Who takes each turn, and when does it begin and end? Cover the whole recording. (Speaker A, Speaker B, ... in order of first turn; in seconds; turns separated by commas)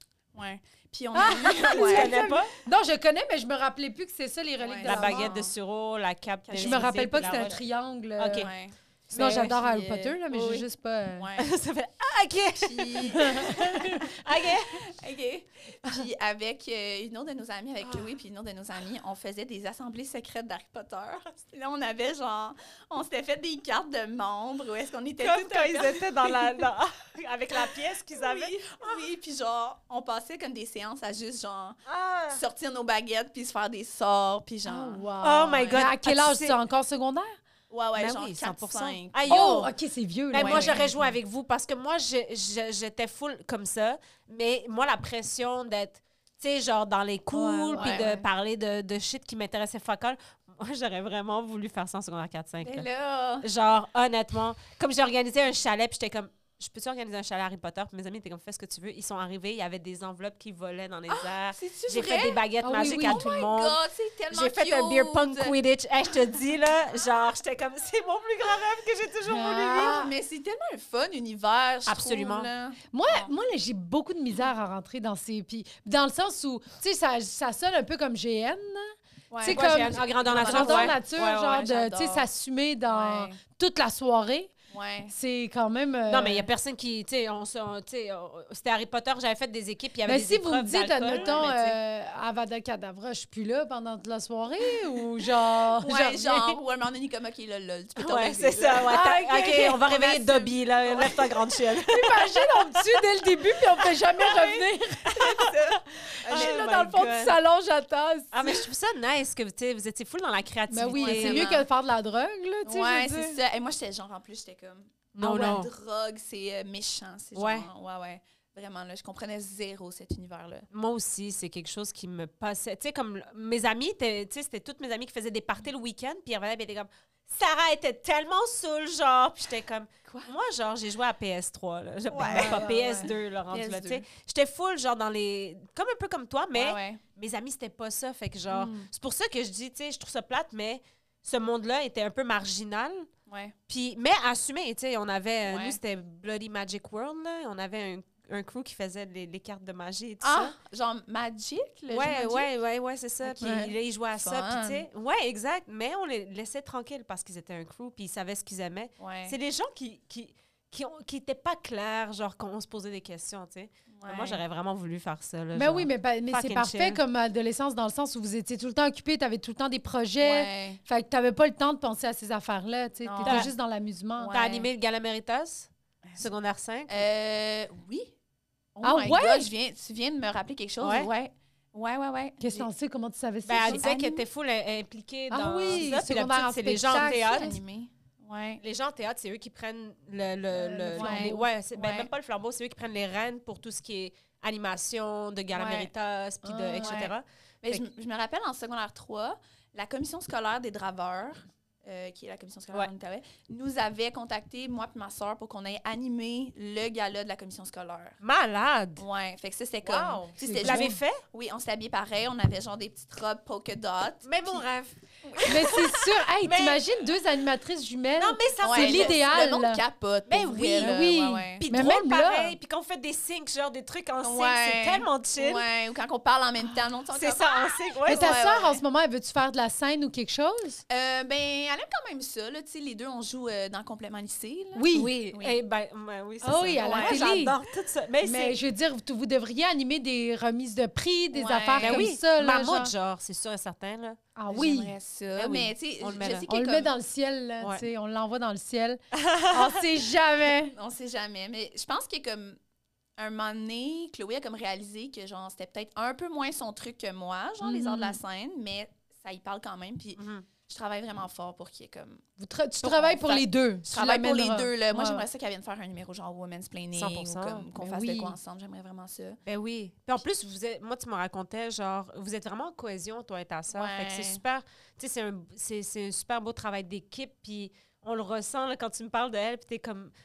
Speaker A: 0.3-2.2, Speaker B: 1.1-5.3, Speaker C: 1.2-2.5, Speaker A: 4.6-5.5, Speaker C: 4.8-7.6, Speaker A: 6.5-7.5, Speaker B: 6.6-8.5, Speaker C: 8.2-8.5, Speaker A: 8.3-10.2, Speaker C: 9.1-9.6, Speaker B: 9.1-11.3, Speaker C: 10.3-10.7, Speaker A: 11.2-11.5, Speaker C: 11.4-14.9, Speaker A: 12.6-26.7, Speaker B: 13.2-14.0, Speaker C: 25.2-29.0, Speaker A: 27.5-35.9, Speaker C: 31.9-32.4, Speaker B: 34.7-37.4, Speaker C: 35.2-36.6, Speaker A: 37.7-39.6, Speaker C: 38.0-39.7, Speaker B: 39.3-41.1, Speaker C: 40.3-52.9, Speaker A: 40.4-40.8, Speaker B: 47.3-48.2, Speaker A: 47.8-48.1, Speaker A: 52.6-53.5, Speaker C: 53.4-63.8, Speaker A: 61.1-65.6, Speaker B: 62.6-63.3, Speaker C: 64.3-70.0, Speaker B: 69.3-70.1, Speaker A: 69.7-73.3, Speaker C: 71.9-72.5, Speaker B: 72.9-84.5, Speaker A: 79.3-82.3, Speaker C: 79.5-81.6, Speaker A: 82.9-83.4, Speaker A: 84.7-85.1, Speaker B: 85.1-86.5, Speaker C: 86.1-91.7, Speaker B: 90.1-96.6, Speaker A: 91.1-91.7, Speaker A: 95.8-101.6, Speaker C: 98.0-102.8, Speaker B: 98.9-99.7, Speaker B: 101.9-105.2, Speaker A: 104.2-106.7, Speaker C: 105.1-107.4, Speaker B: 106.3-108.5, Speaker C: 108.3-111.5, Speaker B: 110.7-113.4, Speaker A: 110.9-111.7, Speaker A: 112.7-120.7, Speaker C: 115.2-115.7, Speaker C: 117.3-117.7, Speaker C: 120.7-143.1, Speaker A: 130.1-130.3, Speaker A: 132.1-134.1, Speaker B: 132.2-133.1, Speaker A: 136.5-137.0, Speaker A: 138.5-138.9, Speaker A: 143.3-143.6, Speaker C: 143.7-150.6, Speaker A: 145.5-145.8, Speaker A: 150.2-152.5, Speaker C: 151.9-167.0, Speaker A: 153.2-154.9, Speaker B: 153.4-153.7, Speaker A: 159.0-159.4, Speaker A: 163.9-164.4, Speaker B: 165.6-174.3, Speaker A: 170.2-170.8, Speaker A: 173.0-173.5, Speaker C: 173.2-173.5, Speaker A: 174.2-174.7, Speaker C: 174.3-177.1, Speaker A: 176.9-178.1, Speaker A: 178.8-182.7, Speaker B: 178.8-179.5, Speaker C: 180.8-181.1, Speaker B: 182.4-183.8, Speaker C: 183.5-187.6, Speaker A: 183.7-184.3, Speaker B: 185.3-187.5, Speaker A: 186.8-188.6, Speaker C: 188.6-197.8, Speaker B: 190.5-191.5, Speaker A: 190.9-192.1, Speaker A: 195.6-195.9, Speaker B: 196.4-197.1, Speaker A: 196.8-208.2, Speaker C: 208.2-209.0, Speaker A: 209.0-214.7, Speaker C: 209.8-211.2, Speaker B: 210.4-211.0, Speaker C: 214.2-215.8, Speaker A: 215.2-215.8, Speaker B: 215.4-219.8, Speaker C: 216.4-216.8, Speaker C: 218.2-219.2, Speaker A: 218.6-221.7, Speaker C: 220.3-221.0, Speaker B: 220.5-222.6, Speaker C: 221.6-225.7, Speaker A: 224.2-228.8, Speaker C: 227.1-228.4, Speaker B: 228.1-230.8, Speaker A: 230.9-235.6, Speaker B: 234.8-235.1, Speaker C: 234.9-238.6, Speaker B: 236.4-237.6, Speaker A: 236.8-237.3, Speaker B: 238.2-242.9, Speaker A: 241.3-242.1, Speaker C: 241.8-244.2, Speaker B: 244.4-244.9, Speaker A: 244.5-246.9, Speaker C: 245.4-246.5, Speaker B: 246.5-249.0, Speaker C: 249.1-249.8, Speaker B: 249.5-250.8, Speaker A: 250.7-252.6, Speaker A: 253.2-262.2, Speaker B: 257.6-258.2, Speaker C: 260.2-260.5, Speaker B: 262.4-265.2, Speaker A: 262.8-269.4, Speaker C: 266.9-267.7, Speaker B: 267.8-268.4, Speaker C: 269.5-280.1, Speaker A: 273.7-274.4